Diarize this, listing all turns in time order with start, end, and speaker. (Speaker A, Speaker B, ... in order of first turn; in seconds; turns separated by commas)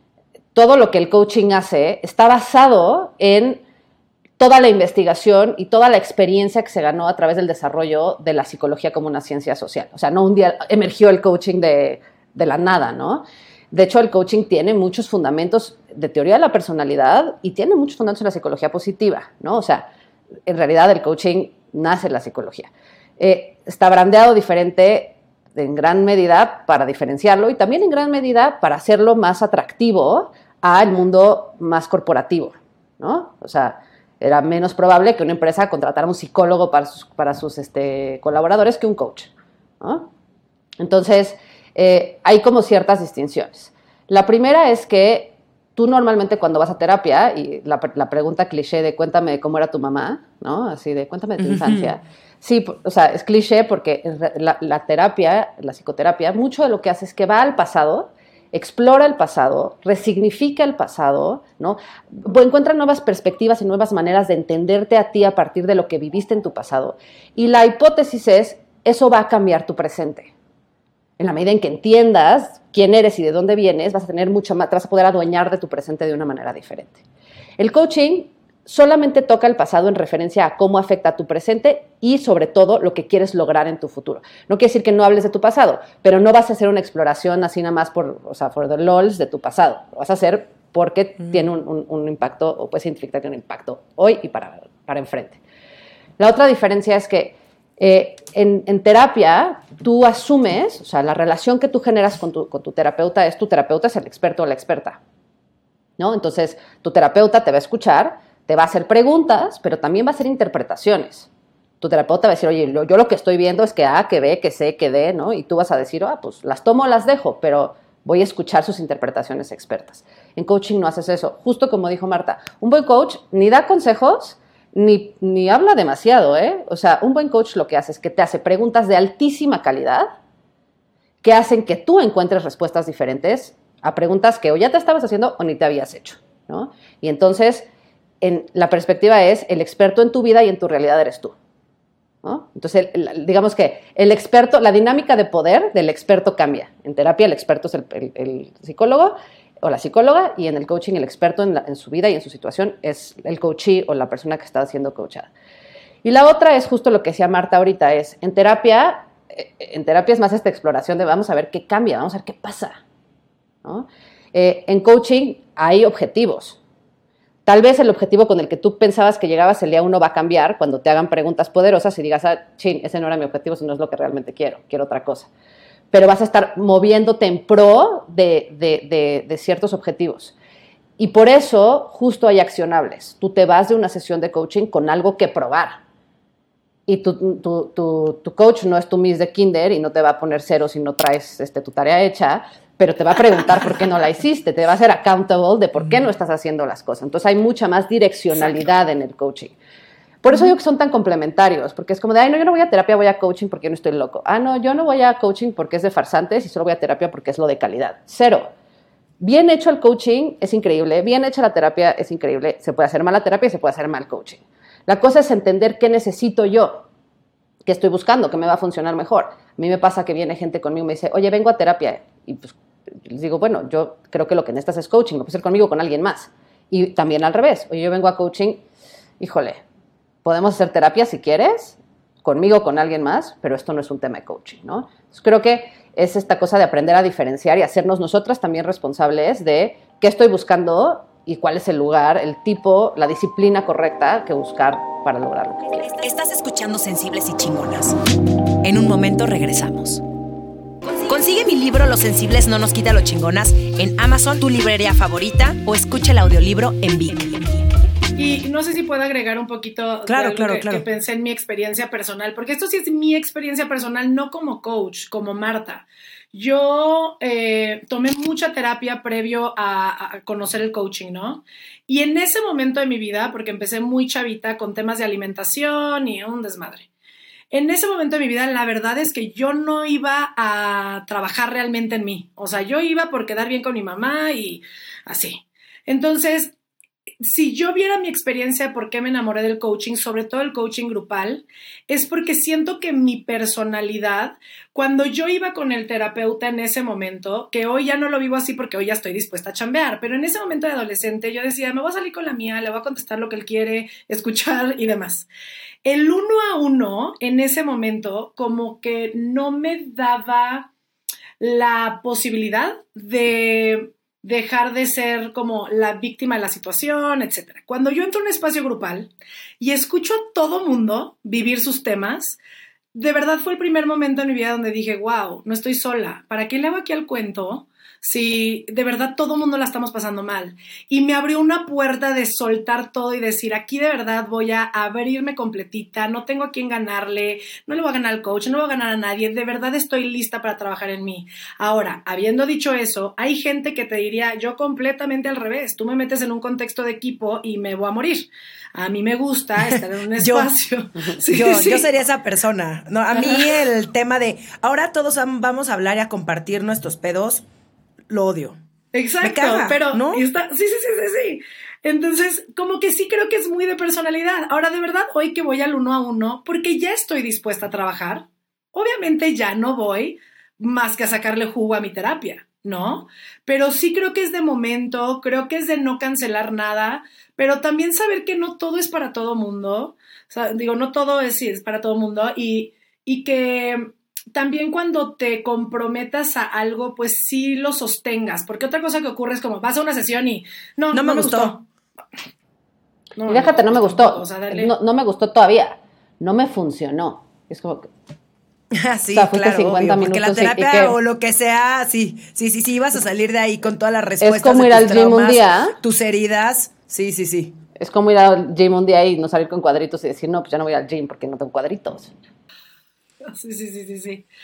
Speaker A: 0.5-3.6, Speaker A: 4.4-19.9, Speaker A: 20.5-39.3, Speaker A: 39.8-40.1, Speaker A: 40.8-70.3, Speaker B: 51.4-51.9, Speaker A: 71.2-77.0, Speaker A: 77.6-95.4, Speaker A: 96.2-105.0, Speaker A: 106.0-111.3, Speaker A: 111.8-130.1, Speaker A: 131.2-137.7, Speaker A: 138.2-141.3, Speaker A: 142.2-155.3, Speaker A: 156.0-162.8, Speaker A: 163.6-166.6, Speaker A: 167.4-175.3, Speaker A: 175.9-180.3, Speaker A: 181.0-185.8, Speaker A: 186.9-199.6, Speaker A: 200.2-208.5, Speaker A: 209.2-216.9, Speaker A: 217.6-228.6, Speaker A: 229.2-229.6, Speaker A: 230.2-245.9, Speaker B: 245.8-247.9, Speaker B: 248.6-250.0, Speaker B: 250.8-257.7, Speaker C: 258.1-276.9, Speaker B: 260.1-260.8, Speaker C: 277.5-286.5, Speaker C: 287.2-305.3, Speaker C: 305.8-310.7, Speaker C: 311.4-322.4, Speaker C: 322.9-351.9, Speaker B: 349.6-350.5, Speaker B: 351.2-357.4, Speaker C: 353.1-353.5, Speaker B: 358.1-358.6, Speaker C: 358.9-391.6, Speaker B: 359.2-360.2, Speaker B: 390.9-391.5, Speaker C: 393.2-394.7, Speaker A: 393.3-397.9, Speaker B: 398.7-407.6, Speaker A: 399.1-400.9, Speaker A: 404.2-405.8, Speaker A: 407.8-412.1, Speaker C: 413.2-414.2